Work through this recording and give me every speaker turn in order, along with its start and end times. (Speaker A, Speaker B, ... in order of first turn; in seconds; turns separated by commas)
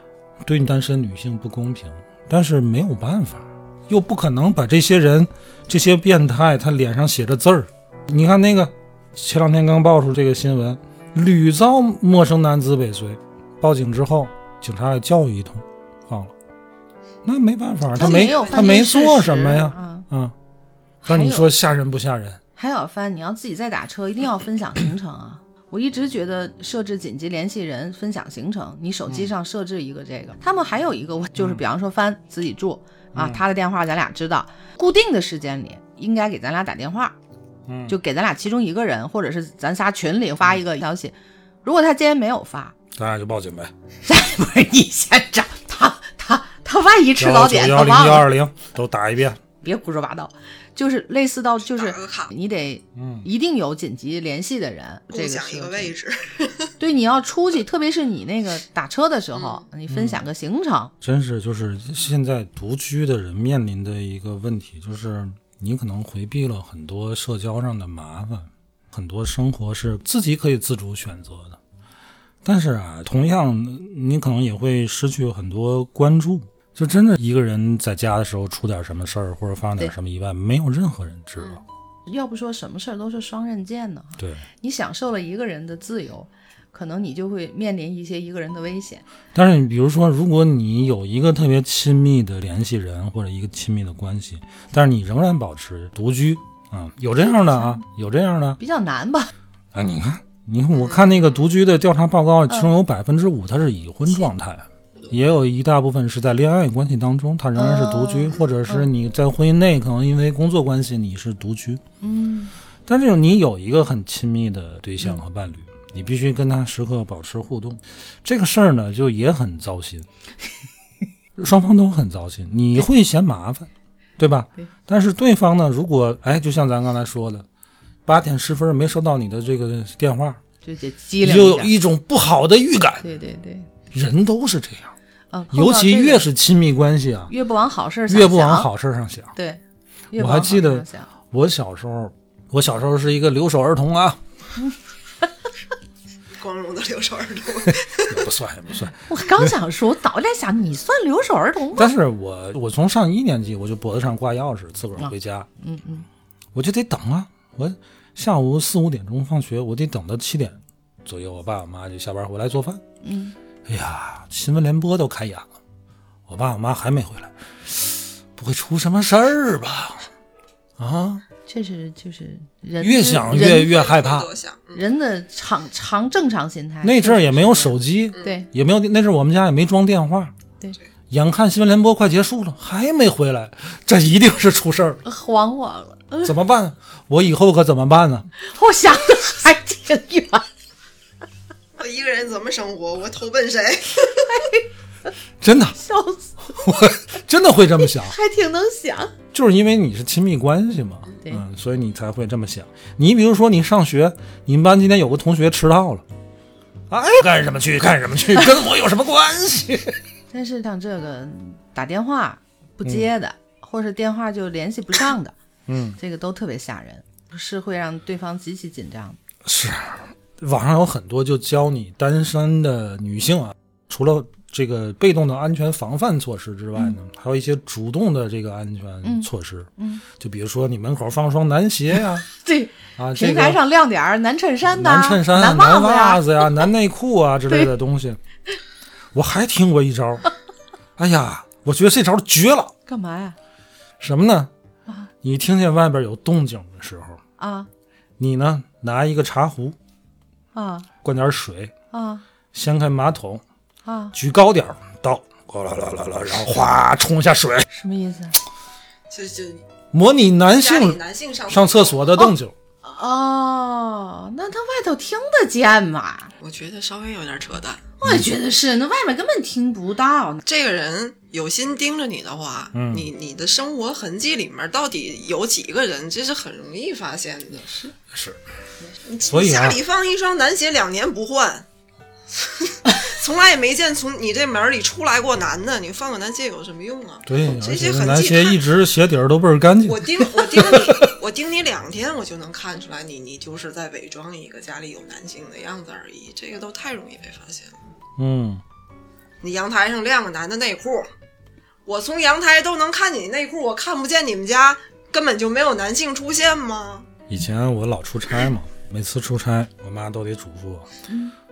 Speaker A: 0.4-16.3, Speaker A: 17.2-20.4, Speaker B: 17.9-20.1, Speaker C: 18.0-18.9, Speaker B: 21.0-21.5, Speaker A: 21.1-22.4, Speaker B: 22.6-37.2, Speaker A: 31.4-31.6, Speaker A: 33.1-33.4, Speaker A: 37.7-38.0, Speaker B: 37.9-42.8, Speaker A: 43.0-43.7, Speaker B: 44.1-48.3, Speaker A: 47.2-49.4, Speaker B: 49.6-55.9, Speaker C: 51.6-52.3, Speaker A: 53.0-53.3, Speaker C: 55.1-56.7, Speaker B: 56.8-60.9, Speaker C: 59.3-59.6, Speaker A: 59.9-60.2, Speaker A: 61.0-71.6, Speaker A: 72.4-81.6, Speaker B: 82.1-89.0, Speaker A: 84.2-84.5, Speaker A: 89.3-98.6, Speaker B: 97.3-97.8, Speaker B: 98.6-99.3, Speaker A: 99.7-111.8, Speaker C: 100.7-101.4, Speaker B: 107.5-108.9, Speaker B: 112.0-112.5, Speaker A: 112.9-120.1, Speaker A: 121.4-127.5, Speaker A: 128.1-130.4, Speaker B: 130.6-131.7, Speaker A: 131.2-133.0, Speaker B: 133.0-133.7, Speaker A: 133.9-134.9, Speaker B: 135.3-136.3, Speaker A: 135.5-137.3, Speaker B: 137.3-138.7, Speaker A: 138.1-139.3, Speaker B: 139.3-141.1, Speaker A: 140.2-144.2, Speaker C: 146.4-148.3, Speaker A: 147.7-149.6, Speaker B: 149.1-151.9, Speaker A: 151.8-155.5, Speaker B: 155.0-156.1, Speaker A: 156.5-162.8, Speaker B: 163.0-163.4, Speaker A: 163.7-165.5, Speaker A: 166.3-170.1, Speaker A: 170.8-171.2, Speaker B: 171.5-173.7, Speaker A: 172.8-174.3, Speaker C: 173.5-174.8, Speaker B: 174.7-178.5, Speaker A: 176.8-180.3, Speaker A: 181.1-185.0, Speaker B: 185.0-186.3, Speaker A: 186.2-188.3, Speaker B: 188.4-190.5, Speaker C: 191.8-194.4, Speaker B: 194.3-194.7, Speaker A: 195.4-195.8, Speaker B: 195.8-197.0, Speaker A: 196.6-198.2, Speaker B: 197.8-199.1, Speaker A: 199.3-206.1, Speaker A: 206.9-210.0, Speaker B: 210.3-215.3, Speaker A: 215.7-216.0, Speaker B: 216.0-219.2, Speaker A: 219.4-232.3, Speaker B: 229.0-230.0, Speaker B: 232.4-236.6, Speaker A: 233.0-233.6, Speaker A: 234.6-238.2, Speaker A: 239.1-240.3, Speaker A: 241.0-242.7, Speaker B: 242.9-243.4, Speaker A: 244.0-244.5, Speaker A: 245.2-247.2, Speaker B: 247.4-247.7, Speaker A: 248.2-249.8, Speaker B: 250.5-250.9, Speaker A: 251.0-251.7, Speaker B: 251.9-252.2, Speaker A: 252.5-253.4, Speaker B: 253.8-254.2, Speaker A: 254.1-257.7, Speaker B: 257.7-258.4, Speaker C: 259.1-259.6, Speaker A: 259.9-262.5, Speaker C: 260.5-262.1, Speaker B: 262.8-266.3, Speaker C: 266.4-267.8, Speaker B: 268.0-270.4, Speaker C: 270.5-277.7, Speaker A: 272.7-273.1, Speaker B: 277.6-277.9, Speaker A: 278.1-278.4, Speaker C: 279.1-281.7, Speaker A: 279.3-279.8, Speaker C: 282.4-288.6, Speaker A: 287.3-291.1, Speaker C: 289.8-297.8, Speaker A: 298.2-298.6, Speaker C: 299.4-301.1, Speaker C: 301.9-307.1, Speaker A: 307.3-310.9, Speaker B: 311.1-311.3